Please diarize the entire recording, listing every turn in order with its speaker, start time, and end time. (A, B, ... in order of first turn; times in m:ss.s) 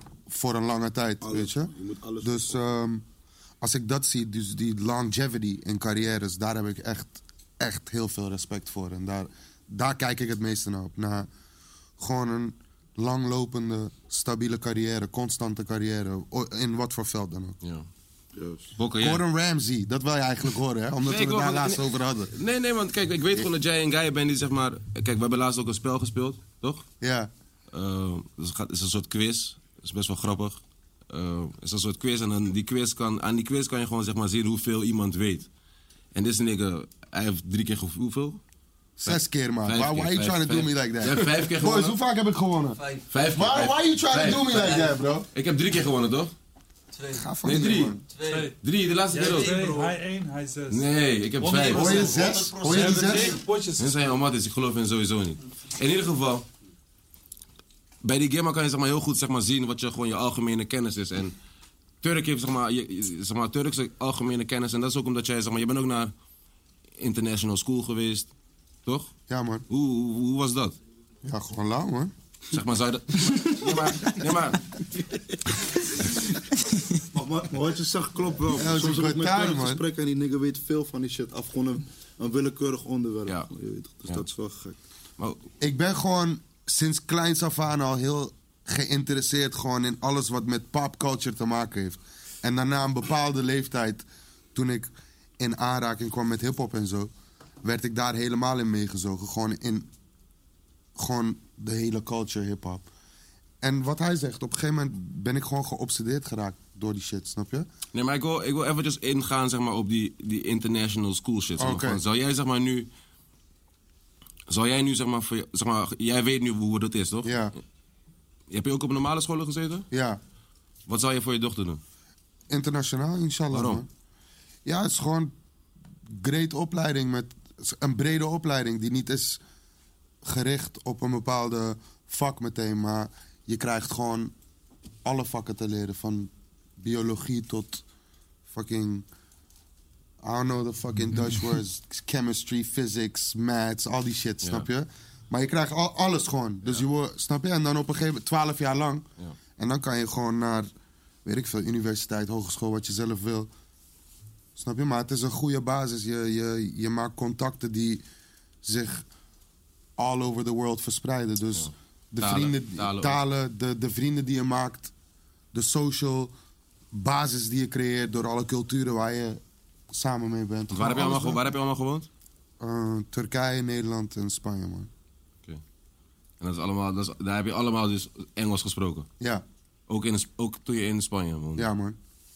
0:00.3-0:03.0 A
0:01.2-0:02.6 B
0:03.6-0:11.3 A
0:12.0-0:17.6 A
0:17.6-0:17.9 C
0:18.4-0:18.7 B
0:18.8-0:19.2 C
0:19.0-0:22.3 A
0:21.0-0:26.8 C
0:27.0-0:27.3 A
0:27.7-0:30.6 C
0:31.1-0:35.5 C
0:36.1-0:38.4 C
0:39.0-0:42.8 A
0:39.0-0:42.0 C
0:43.1-0:46.3 C
0:43.3-0:45.3 A
0:44.6-0:44.9 D
0:47.0-0:47.2 D
0:47.1-0:48.0 A
0:47.4-0:48.0 C
0:48.1-0:48.5 D
0:48.2-0:48.5 E
0:48.6-0:49.7 C
0:49.1-0:50.9 E
0:49.2-0:49.9 D
0:50.7-0:53.2 C
0:51.4-0:53.9 E
0:51.7-0:53.4 A
0:51.7-0:53.4 D
0:53.8-0:56.4 C
0:58.0-1:01.3 C
1:02.0-1:06.1 C
1:07.0-1:08.3 C
1:08.8-1:09.1 C
1:09.3-1:09.6 A
1:09.7-1:10.8 C
1:11.2-1:12.1 A
1:12.5-1:14.7 C
1:17.1-1:24.8 B
1:18.5-1:19.8 A
1:25.6-1:37.1 A
1:37.6-1:39.9 A
1:41.0-1:42.8 A
1:43.6-1:47.7 A
1:47.9-1:52.9 C
1:51.6-1:52.0 A
1:54.5-1:57.4 C
1:57.2-1:57.5 A
1:58.5-1:59.9 C
1:59.9-2:00.2 A
2:00.9-2:01.8 C
2:02.5-2:03.9 A
2:03.5-2:03.8 C
2:04.6-2:05.3 A
2:06.1-2:09.4 A
2:10.2-2:14.3 A
2:15.0-2:17.8 A
2:18.5-2:19.0 A
2:20.2-2:29.0 A
2:24.4-2:24.7 C
2:29.6-2:30.7 A
2:31.2-2:33.5 A
2:34.6-2:38.0 A
2:38.6-2:39.0 A
2:40.0-2:44.9 A
2:42.2-2:43.2 C
2:45.5-2:46.3 A
2:46.9-2:49.4 A
2:49.9-2:51.4 A
2:50.7-2:52.1 C
2:52.6-2:54.9 A
2:56.4-2:59.1 C
2:59.9-3:01.7 C
3:01.6-3:02.0 A